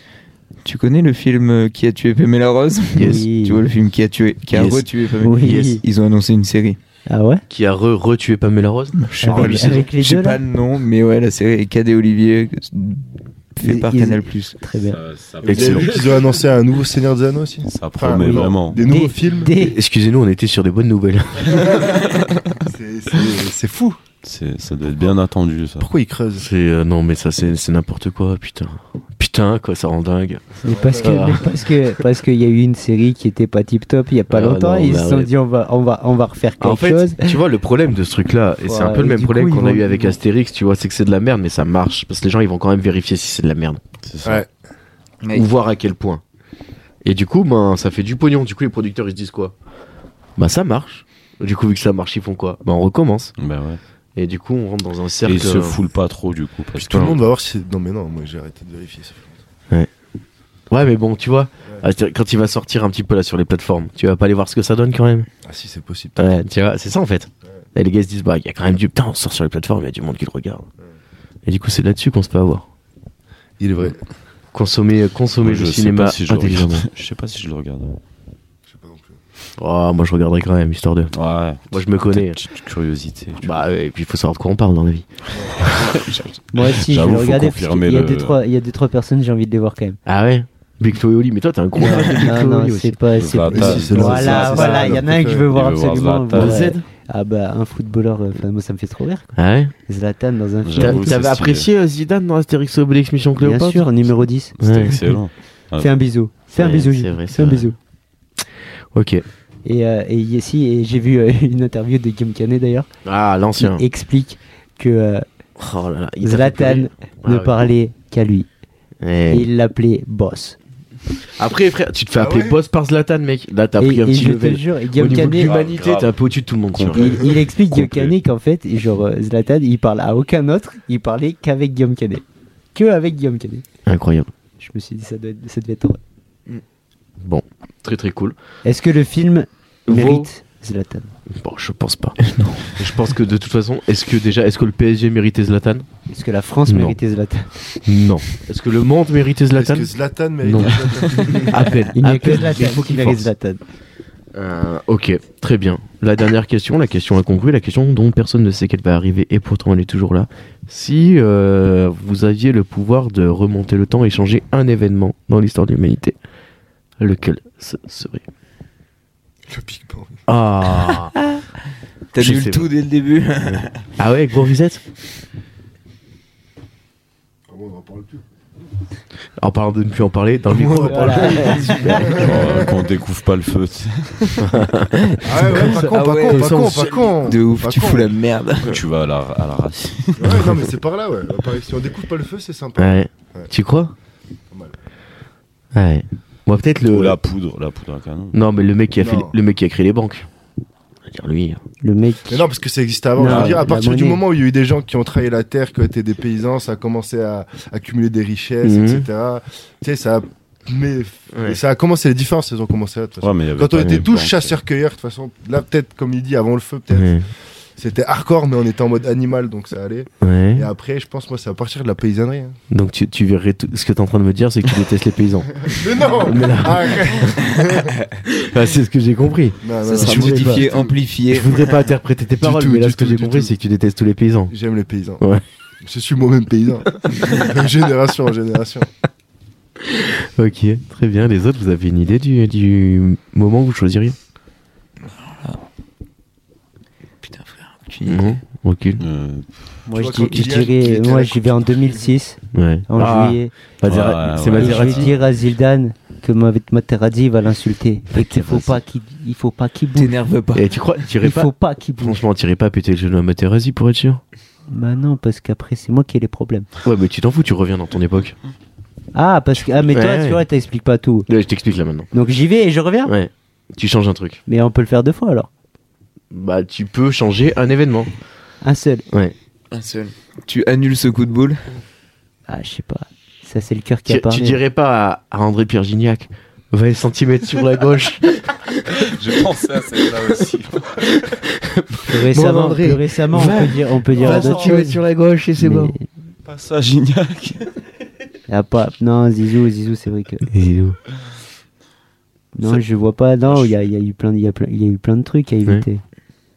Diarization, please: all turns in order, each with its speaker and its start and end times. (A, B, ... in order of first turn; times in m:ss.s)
0:00.6-0:06.8 A
0:02.9-0:03.3 B
0:02.9-0:03.6 C
0:04.5-0:04.9 B
0:05.2-0:05.8 C
0:07.1-0:07.4 C
0:07.5-0:09.9 B
0:09.0-0:14.6 A
0:09.2-0:10.4 C
0:13.6-0:15.0 C
0:14.8-0:16.5 D
0:15.4-0:19.5 E
0:15.4-0:15.9 B
0:17.7-0:18.9 D
0:18.2-0:19.8 C
0:19.7-0:21.9 B
0:21.7-0:22.0 E
0:22.6-0:24.0 E
0:24.2-0:25.9 D
0:25.8-0:26.5 E
0:26.4-0:30.5 B
0:30.6-0:37.4 C
0:30.6-0:31.5 E
0:31.0-0:31.6 B
0:34.3-0:35.3 B
0:36.6-0:43.8 B
0:38.7-0:40.2 C
0:44.1-0:44.4 D
0:45.3-0:46.2 B
0:47.0-0:49.6 B
0:50.4-0:53.3 B
0:53.4-0:53.8 D
0:54.2-0:55.8 B
0:55.2-0:57.2 D
0:56.8-0:59.4 E
0:56.9-0:57.2 B
1:00.7-1:05.3 B
1:05.4-1:06.3 E
1:06.2-1:10.7 B
1:11.5-1:12.7 B
1:13.6-1:14.0 E
1:14.5-1:16.9 B
1:15.4-1:18.0 D
1:18.7-1:19.2 E
1:19.6-1:21.1 B
1:21.1-1:23.6 D
1:21.7-1:22.4 B
1:23.4-1:25.9 B
1:25.4-1:25.7 E
1:25.6-1:28.4 D
1:26.5-1:30.0 C
1:30.1-1:33.0 B
1:31.9-1:39.3 C
1:33.2-1:34.7 D
1:33.5-1:35.5 E
1:34.2-1:35.0 B
1:35.3-1:36.7 D
1:36.3-1:36.8 B
1:39.4-1:39.7 B
1:39.9-1:41.2 C
1:40.6-1:41.7 D
1:40.8-1:43.9 B
1:43.4-1:44.5 C
1:44.6-1:45.9 D
1:44.6-1:45.2 B
1:45.8-1:47.8 C
1:46.6-1:47.7 B
1:48.9-1:49.2 B
1:49.6-1:52.9 C
1:53.0-1:53.9 B
1:53.6-1:55.2 C
1:55.6-1:57.7 B
1:56.2-1:58.5 C
1:59.0-1:59.5 B
1:59.3-2:00.6 C
2:01.4-2:07.2 B
2:02.2-2:02.6 E
2:03.8-2:05.6 C
2:05.3-2:06.2 D
2:06.7-2:07.1 D
2:06.9-2:13.6 C
2:07.7-2:08.2 D
2:13.9-2:14.3 B
2:14.6-2:16.0 C
2:17.2-2:18.4 B
2:18.6-2:21.1 C
2:19.9-2:20.3 B
2:21.3-2:22.2 B
2:22.2-2:22.8 A
2:22.7-2:25.9 B
2:26.1-2:27.5 C
2:26.7-2:27.0 B
2:27.8-2:33.3 B
2:29.5-2:31.8 E
2:31.9-2:33.6 C
2:34.3-2:46.2 B
2:47.0-2:48.2 B
2:49.5-2:50.2 E
2:50.3-2:51.1 B
2:52.1-2:53.9 A
2:52.2-2:52.7 B
2:53.5-2:54.8 B
2:57.5-2:58.2 E
2:59.4-3:02.2 B
3:00.5-3:02.8 E
3:00.9-3:02.2 C
3:01.0-3:01.5 A
3:02.0-3:04.5 D
3:04.4-3:07.1 B
3:05.0-3:08.8 A
3:05.2-3:08.2 E
3:08.6-3:10.6 D
3:10.2-3:13.5 E
3:10.3-3:10.6 B
3:12.8-3:13.9 B
3:15.7-3:17.2 B
3:16.9-3:18.4 D
3:18.3-3:20.3 B
3:19.0-3:19.4 E
3:21.1-3:21.6 B
3:21.8-3:22.5 C
3:22.3-3:42.6 E
3:23.2-3:24.2 C
3:23.2-3:23.6 B
3:28.6-3:29.1 B
3:31.3-3:31.6 B
3:33.2-3:34.6 D
3:36.9-3:37.3 B
3:40.2-3:40.7 B
3:42.7-3:47.4 B
3:45.6-3:48.0 E
3:48.3-3:50.7 B
3:49.6-3:51.0 E
3:49.8-3:51.6 A
3:51.3-3:54.5 B
3:52.4-3:53.5 E
3:54.5-3:55.2 E
3:55.8-3:58.9 E
3:59.8-4:04.2 B
4:05.0-4:05.6 A
4:07.2-4:08.4 A
4:08.1-4:09.0 B
4:09.0-4:09.7 D
4:09.9-4:13.5 C
4:09.9-4:11.8 E
4:12.5-4:15.2 B
4:13.8-4:15.2 D
4:14.6-4:20.2 C
4:18.1-4:18.8 B
4:19.9-4:20.8 A
4:20.5-4:24.2 B
4:21.2-4:22.2 C
4:24.7-4:26.7 C
4:26.8-4:28.4 B
4:29.1-4:31.3 C
4:29.7-4:30.4 B
4:31.3-4:32.1 B
4:32.1-4:33.1 C
4:33.0-4:34.4 B
4:34.5-4:35.5 C
4:36.3-4:38.1 B
4:38.6-4:39.1 C
4:39.7-4:41.7 A
4:42.5-4:44.6 C
4:44.1-4:48.4 B
4:48.9-4:51.4 D
4:51.2-4:56.0 B
4:52.1-4:55.0 C
4:55.6-4:56.1 C
4:56.5-4:57.8 D
4:58.5-5:00.5 C
5:00.5-5:01.0 B
5:02.6-5:06.0 C
5:03.5-5:03.8 D